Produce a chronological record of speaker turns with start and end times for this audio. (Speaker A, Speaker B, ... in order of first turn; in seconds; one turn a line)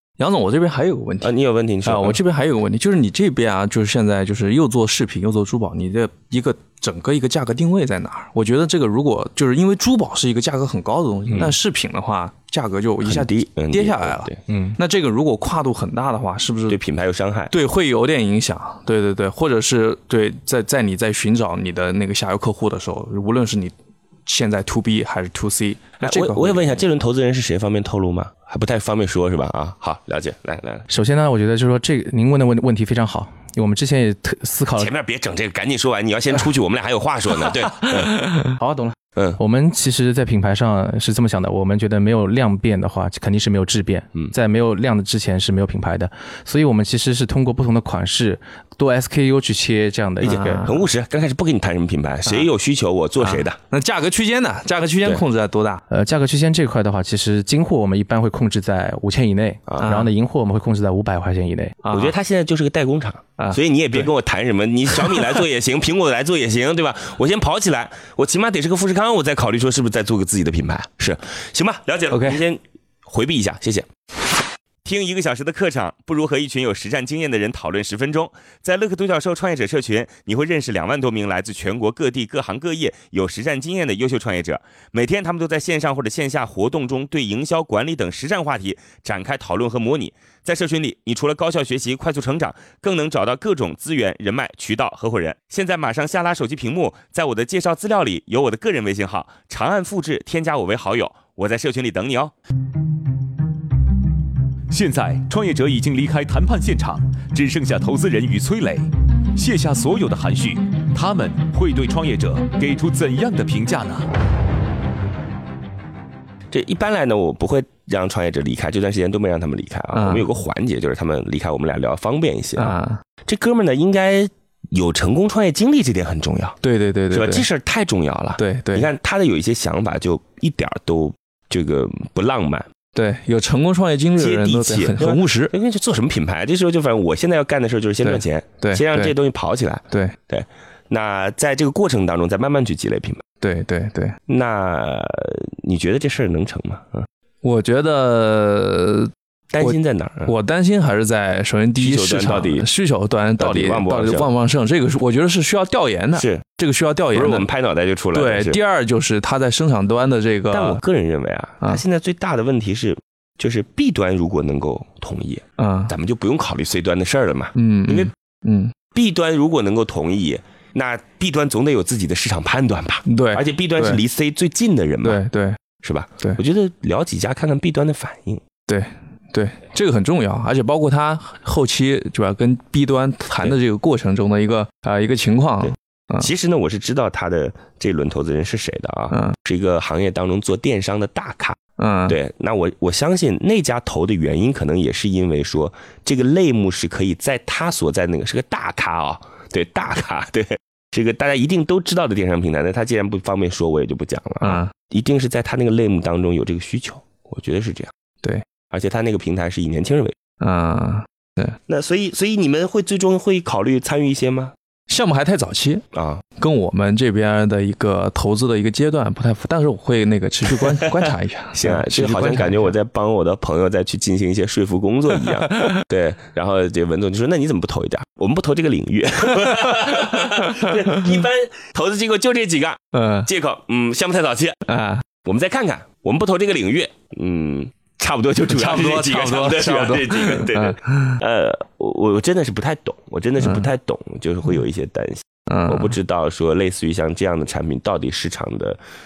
Speaker A: 0.2-1.3
Speaker B: 1.2-2.2
Speaker A: 1.9-16.8
Speaker B: 13.0-14.4
Speaker C: 14.5-14.8
Speaker B: 16.7-17.5
Speaker A: 17.5-23.8
Speaker A: 24.3-26.8
Speaker B: 26.0-30.9
Speaker C: 30.9-34.9
Speaker B: 34.8-38.1
Speaker C: 38.6-50.6
Speaker B: 50.2-53.6
Speaker A: 50.2-50.8
Speaker A: 53.2-55.8
Speaker C: 55.9-61.8
Speaker B: 59.7-60.0
Speaker A: 59.8-60.1
Speaker A: 61.8-62.1
Speaker B: 61.9-73.9
Speaker A: 63.4-64.1
Speaker A: 72.1-72.4
Speaker B: 74.8-102.3
Speaker D: 104.7-114.1
Speaker B: 116.5-126.6
Speaker A: 120.0-120.3
Speaker A: 122.6-123.0
Speaker A: 126.6-127.5
Speaker B: 127.1-132.7
Speaker A: 128.4-128.9
Speaker A: 132.9-135.5
Speaker B: 134.2-143.2
Speaker A: 138.0-139.1
Speaker A: 143.4-144.2
Speaker B: 144.3-147.1
Speaker A: 147.4-149.1
Speaker B: 149.5-150.3
Speaker A: 149.6-157.5
Speaker B: 151.8-152.7
Speaker B: 153.4-154.3
Speaker B: 156.2-156.4
Speaker B: 157.1-158.6
Speaker A: 158.1-160.8
Speaker B: 160.5-168.1
Speaker A: 165.6-165.9
Speaker A: 167.6-168.7
Speaker B: 168.9-175.2
Speaker A: 173.1-174.0
Speaker A: 175.0-175.6
Speaker B: 175.8-178.4
Speaker A: 178.7-186.3
Speaker B: 185.6-207.9
Speaker A: 191.8-192.2
Speaker A: 204.4-204.7
Speaker B: 208.7-210.2
Speaker A: 210.4-211.6
Speaker B: 211.7-214.5
Speaker A: 214.9-215.8
Speaker B: 215.9-216.2
Speaker A: 216.4-222.7
Speaker B: 221.5-234.7
Speaker A: 225.5-225.8
Speaker A: 230.5-230.8
Speaker A: 232.9-233.3
Speaker A: 234.7-235.0
Speaker B: 235.2-248.8
Speaker A: 238.4-241.2
Speaker A: 243.4-243.7
Speaker A: 245.5-245.9